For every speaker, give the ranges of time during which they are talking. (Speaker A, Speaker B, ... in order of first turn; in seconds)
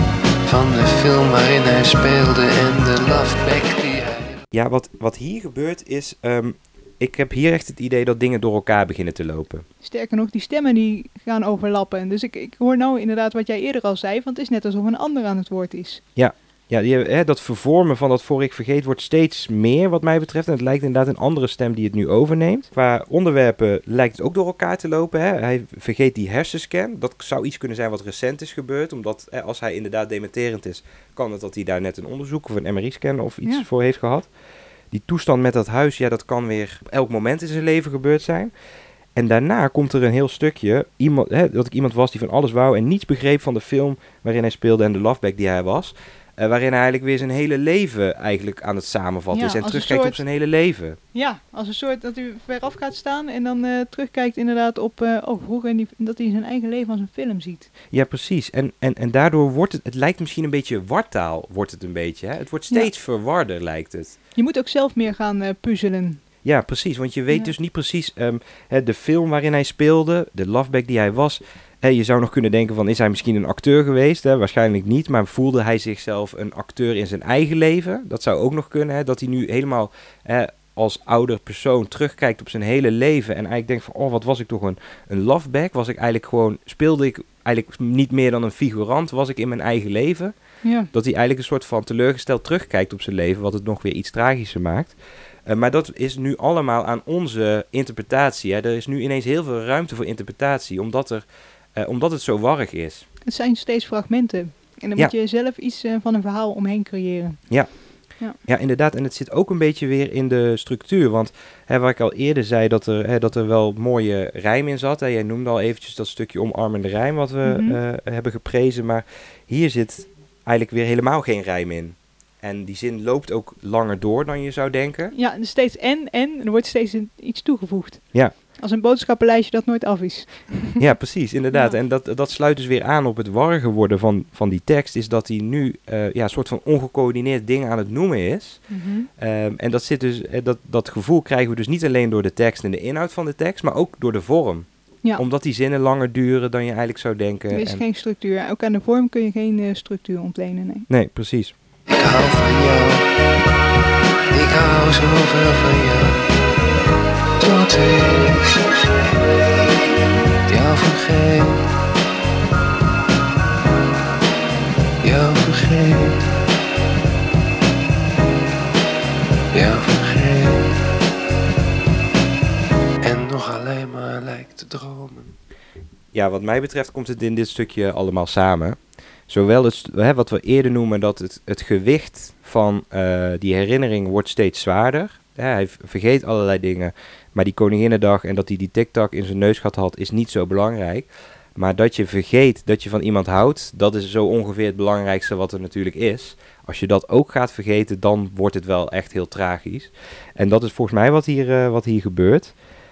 Speaker A: 0.4-4.4, 151.9-153.1, 154.3-156.3, 157.4-158.6, 160.5-161.6, 165.0-166.3, 169.5-170.8, 173.0-175.3
Speaker B: 4.5-9.7, 16.1-34.3, 34.9-38.5, 39.1-51.0, 57.9-64.2, 66.4-101.2, 101.8-103.0, 107.5-125.1, 130.8-147.8, 150.9-151.6, 176.1-202.6
Speaker C: 9.8-16.0, 49.3-50.2, 51.1-57.7, 64.3-66.2, 90.6-90.9, 103.2-107.5, 117.4-117.8, 125.1-130.8, 131.5-131.8, 138.7-139.1, 147.5-150.9